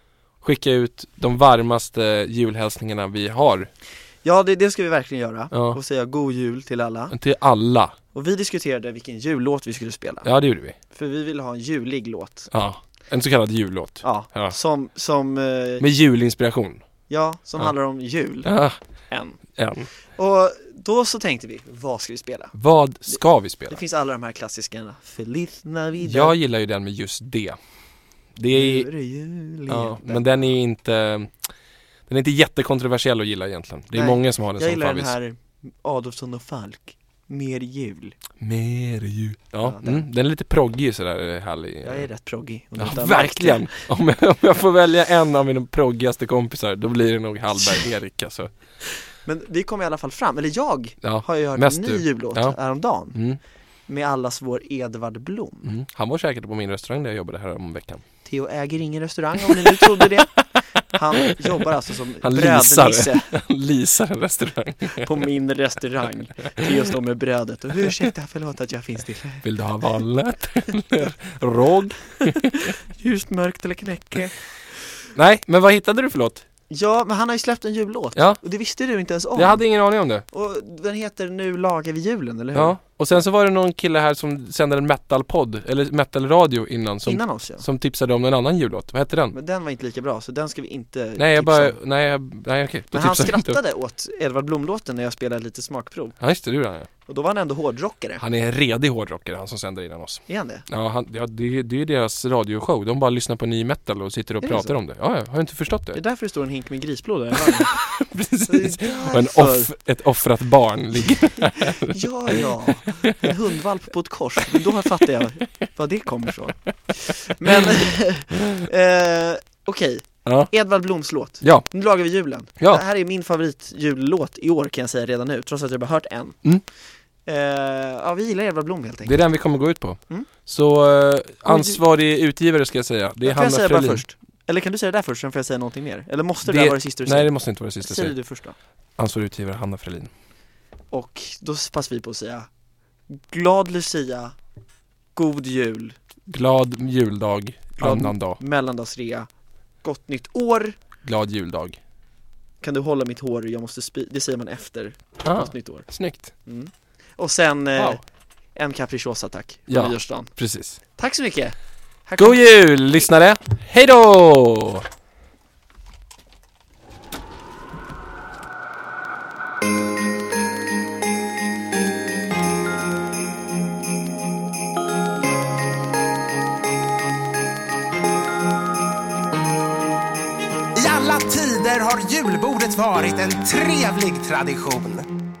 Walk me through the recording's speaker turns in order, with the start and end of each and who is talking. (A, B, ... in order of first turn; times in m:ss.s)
0:00.4-0:03.7 A
0:04.2-0:07.1 B
0:05.5-0:05.8 A
0:07.1-0:07.9 A
0:08.1-0:10.3 B
0:10.2-0:10.8 A
0:10.9-0:12.5 B
0:12.5-0:14.5 A
0:14.0-0:15.8 B
0:15.8-0:16.8 A
0:17.1-0:18.5 B
0:18.4-0:18.8 A
0:19.1-0:19.4 B
0:19.6-0:19.9 A
0:20.1-0:22.5 B
0:22.5-0:23.8 A
0:23.1-0:26.3 B
0:26.0-0:27.6 A
0:28.4-0:28.9 A
0:28.5-0:30.5 B
0:29.7-0:31.3 A
0:32.1-0:35.2 A
0:33.9-0:38.1 B
0:38.4-0:42.1 A
0:39.6-0:40.0 B
0:41.8-0:43.7 B
0:42.8-0:48.5 A
0:49.2-0:53.2 B
0:51.0-0:52.6 A
0:53.1-0:53.4 A
0:53.9-0:55.7 B
0:55.6-0:58.0 A
0:58.2-1:03.3 B
0:59.4-1:00.6 A
1:01.2-1:01.6 A
1:02.2-1:05.2 A
1:05.0-1:09.4 B
1:09.4-1:12.6 A
1:12.2-1:14.4 B
1:15.1-1:16.4 A
1:16.7-1:19.6 B
1:19.3-1:20.2 A
1:20.3-1:22.8 B
1:22.5-1:29.3 A
1:27.0-1:27.6 B
1:29.3-1:31.8 B
1:31.2-1:33.6 A
1:32.9-1:36.1 B
1:36.2-1:36.9 A
1:37.1-1:38.2 B
1:38.2-1:46.0 A
1:40.3-1:40.6 B
1:44.4-1:44.7 B
1:45.9-1:47.7 B
1:47.6-1:53.3 A
1:48.5-1:49.7 B
1:51.6-2:06.4 B
2:00.2-2:00.5 A
2:01.4-2:01.6 A
2:07.2-2:09.2 B
2:09.0-2:14.0 A
2:11.4-2:11.8 B
2:13.2-2:18.5 B
2:16.4-2:18.1 A
2:19.0-2:20.1 A
2:20.9-2:22.5 B
2:23.1-2:24.3 B
2:25.2-2:26.0 B
2:26.3-2:28.4 A
2:27.8-2:29.3 B
2:29.8-2:30.8 B
2:31.0-2:31.8 A
2:32.6-2:35.9 B
2:35.2-2:36.3 A
2:36.4-2:38.0 B
2:38.5-2:40.3 B
2:39.7-2:40.8 A
2:41.0-2:41.5 B
2:42.0-2:42.4 B
2:42.2-2:44.8 A
3:00.7-3:05.1 C